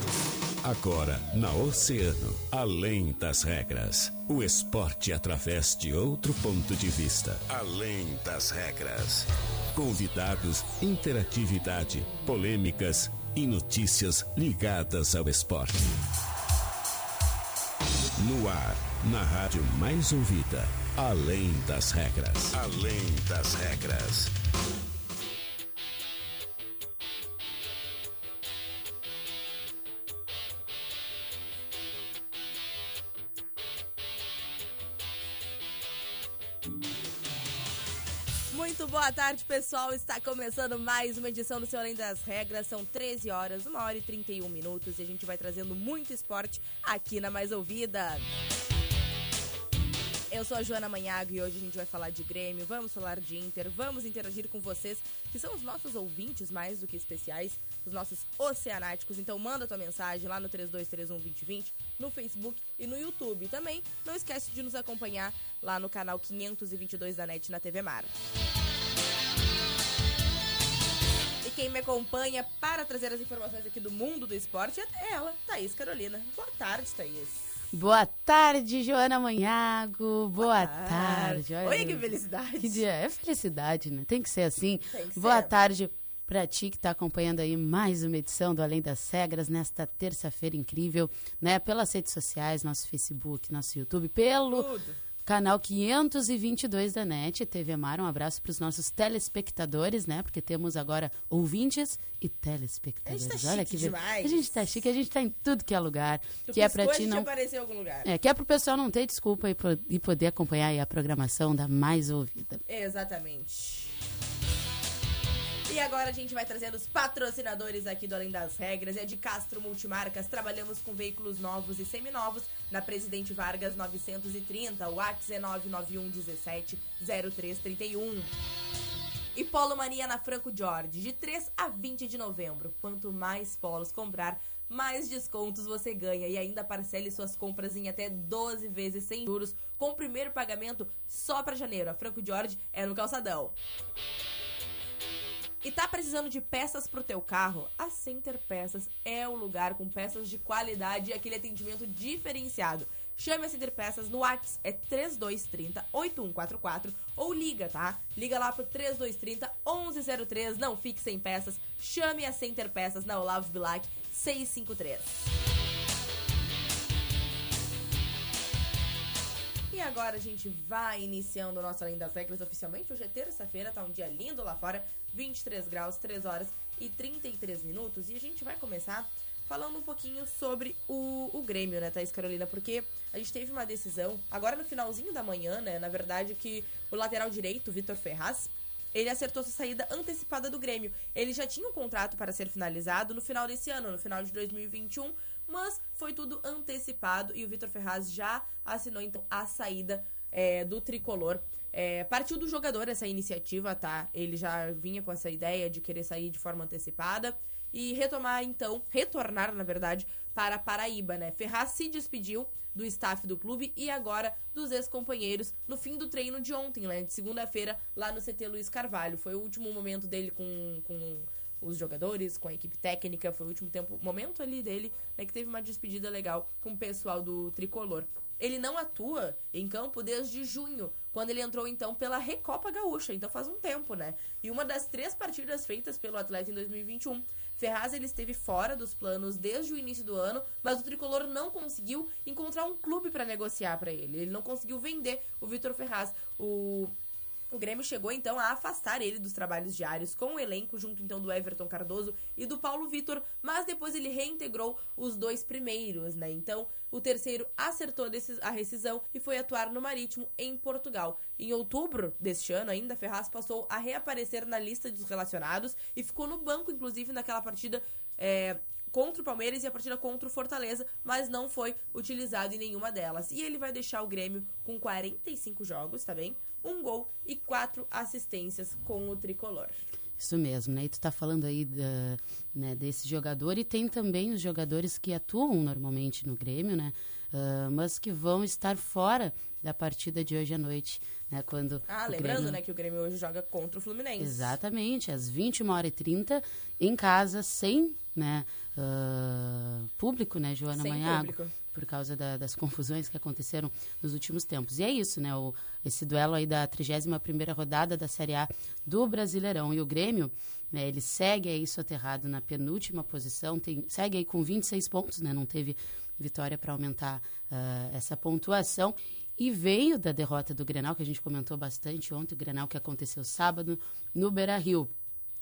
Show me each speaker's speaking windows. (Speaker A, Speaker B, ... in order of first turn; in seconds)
Speaker A: 0.6-15.9, 18.2-24.3
Speaker B: 38.5-48.3, 50.3-68.1, 71.4-77.5, 80.4-82.8, 84.9-85.5, 94.5-95.0, 103.0-104.6, 106.5-108.1, 112.7-114.0, 115.7-128.3, 129.3-143.6, 145.6-165.2, 169.7-246.9, 247.5-279.8, 291.9-294.6, 300.7-301.5
Speaker C: 77.7-94.7, 95.2-107.3, 108.0-112.6, 280.2-292.6, 294.2-324.9